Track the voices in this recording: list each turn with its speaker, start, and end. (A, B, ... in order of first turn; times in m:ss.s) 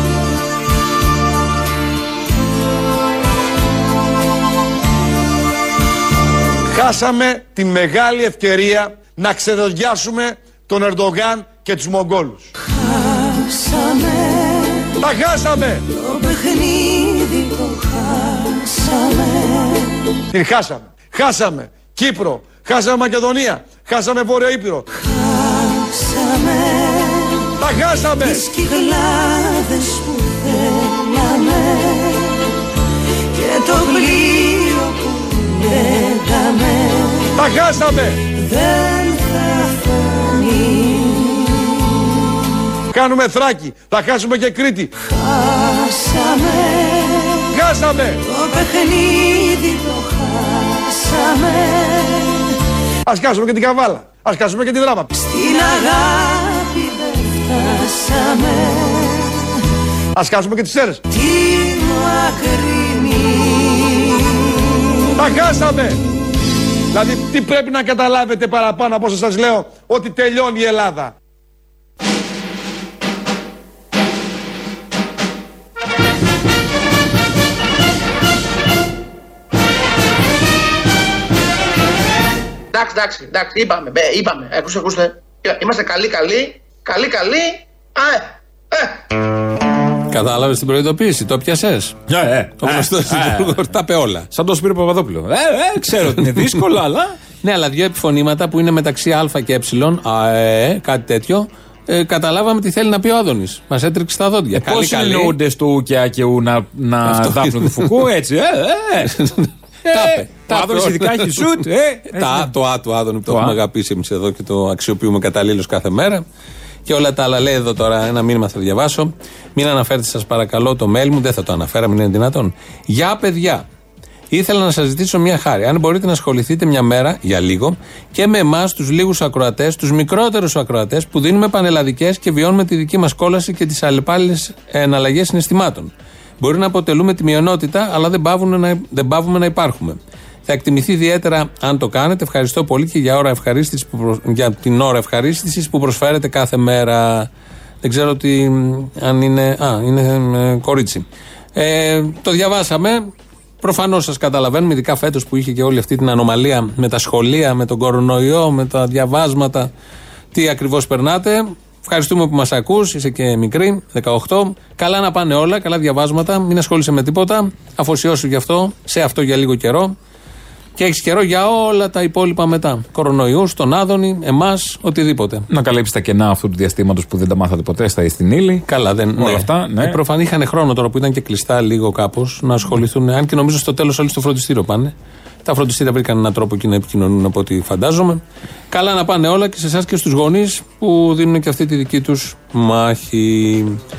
0:06.7-0:12.5 A
0:12.6-0:14.9 B
0:15.0-0:15.8 A
0:15.9-0:20.1 B
0:20.3-0:24.8 A
0:24.9-0:27.5 B
0:27.6-0:28.4 A
0:28.2-0:32.5 B
0:33.3-0:37.4 B
0:37.4-0:38.2 A
0:38.3-0:41.8 B
0:42.9-0:44.9 A
0:45.0-0:47.5 B
0:47.5-0:48.2 A
0:48.2-0:52.5 B
0:53.1-0:55.1 A
0:55.1-0:59.5 B
1:00.1-1:01.0 A
1:01.1-1:04.2 B
1:05.2-1:06.0 A
1:06.9-1:11.1 A
1:22.7-1:29.0 C
1:30.1-1:32.0 D
1:32.1-1:33.7 E
1:32.6-1:34.3 D
1:34.3-1:37.2 E
1:36.1-1:36.5 D
1:37.4-1:45.4 D
1:44.5-1:49.2 E
1:47.0-1:48.1 D
1:49.0-1:56.2 D
1:49.8-1:52.5 E
1:53.3-1:53.6 E
1:56.8-2:03.6 D
2:04.3-2:27.3 D
2:27.8-2:39.7 D
2:40.3-2:49.9 D
2:50.8-2:55.5 D
2:55.5-3:00.0 E
2:58.7-3:04.9 D
3:05.4-3:13.8 D